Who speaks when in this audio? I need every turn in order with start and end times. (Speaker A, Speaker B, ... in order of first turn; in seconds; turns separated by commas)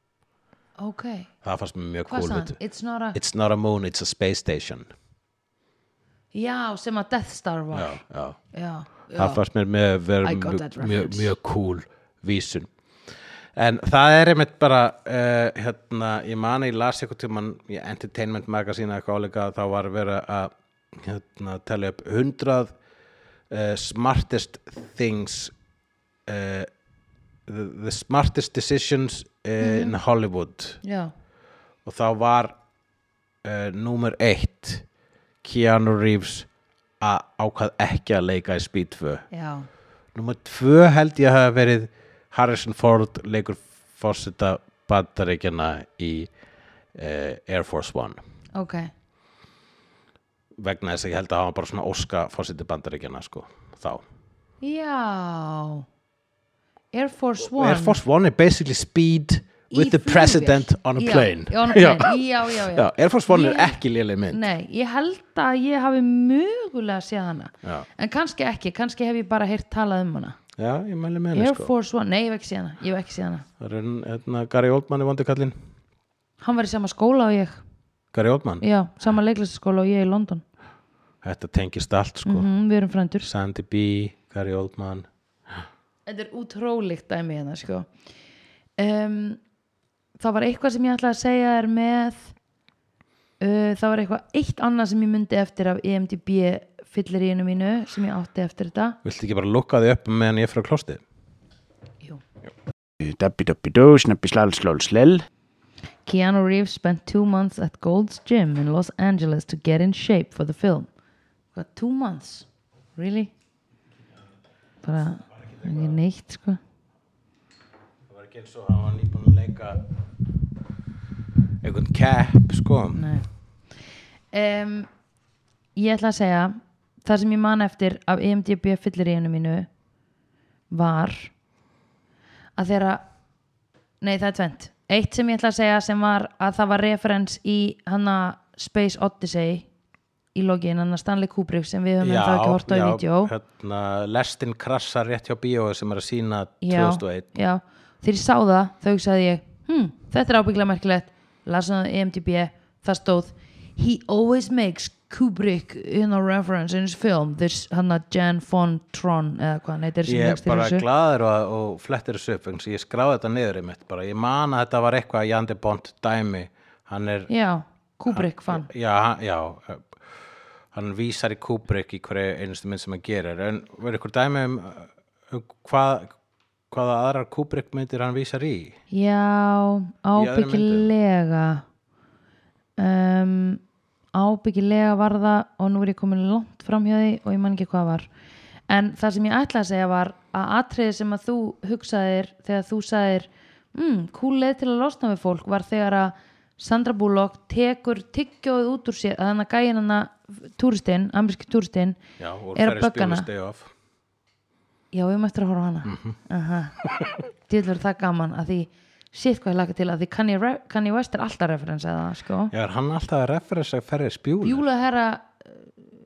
Speaker A: 0.8-1.3, Speaker B: 1.4-2.6, Speaker A: 2.1-3.2, Speaker B: 3.1-4.9, Speaker A: 6.3-8.0, Speaker B: 7.7-8.4, Speaker A: 8.5-9.4, Speaker B: 9.2-12.7, Speaker A: 10.2-11.3, Speaker B: 13.6-22.7, Speaker B: 23.5-25.5, Speaker B: 26.3-26.7, Speaker B: 27.5-30.8, Speaker A: 29.6-29.9, Speaker A: 30.8-31.1, Speaker B: 31.8-32.5, Speaker B: 33.4-34.8, Speaker B: 35.4-36.5, Speaker B: 37.0-39.2, Speaker A: 39.3-39.7, Speaker B: 40.1-46.3, Speaker B: 46.9-48.2, Speaker A: 48.5-48.9, Speaker B: 50.6-54.0, Speaker A: 54.6-55.9, Speaker A: 56.9-58.0, Speaker B: 57.4-64.5, Speaker A: 59.7-63.8, Speaker A: 64.3-70.4, Speaker B: 70.6-71.7, Speaker A: 71.3-73.5, Speaker B: 73.6-75.5, Speaker A: 76.4-77.6, Speaker B: 78.1-78.6, Speaker A: 78.6-80.4, Speaker B: 81.2-82.5, Speaker A: 82.2-83.3, Speaker B: 83.2-85.1, Speaker A: 86.1-87.9, Speaker A: 88.8-89.4, Speaker A: 90.2-92.3, Speaker A: 93.4-99.0, Speaker B: 99.0-101.0, Speaker C: 103.0-105.2, Speaker A: 106.0-110.9, Speaker A: 111.5-113.3, Speaker A: 114.8-116.6, Speaker B: 115.3-116.0, Speaker B: 118.1-119.8, Speaker B: 121.6-123.1, Speaker A: 122.9-123.3, Speaker A: 124.3-124.9, Speaker A: 125.8-129.7, Speaker A: 130.7-131.3, Speaker A: 132.6-133.0, Speaker A: 134.0-139.7, Speaker A: 140.3-143.3, Speaker B: 142.0-147.3, Speaker A: 146.6-160.8, Speaker B: 160.1-167.3, Speaker A: 167.3-168.7, Speaker B: 168.1-169.9, Speaker B: 170.7-176.1, Speaker B: 176.7-178.8, Speaker A: 178.9-181.6, Speaker B: 180.2-180.9, Speaker A: 182.8-183.6, Speaker A: 184.1-188.1, Speaker A: 188.7-202.0, Speaker B: 202.2-203.7, Speaker A: 202.6-203.3, Speaker A: 204.9-206.8, Speaker B: 205.8-206.2, Speaker A: 207.5-212.5, Speaker B: 212.5-214.7, Speaker A: 214.4-215.7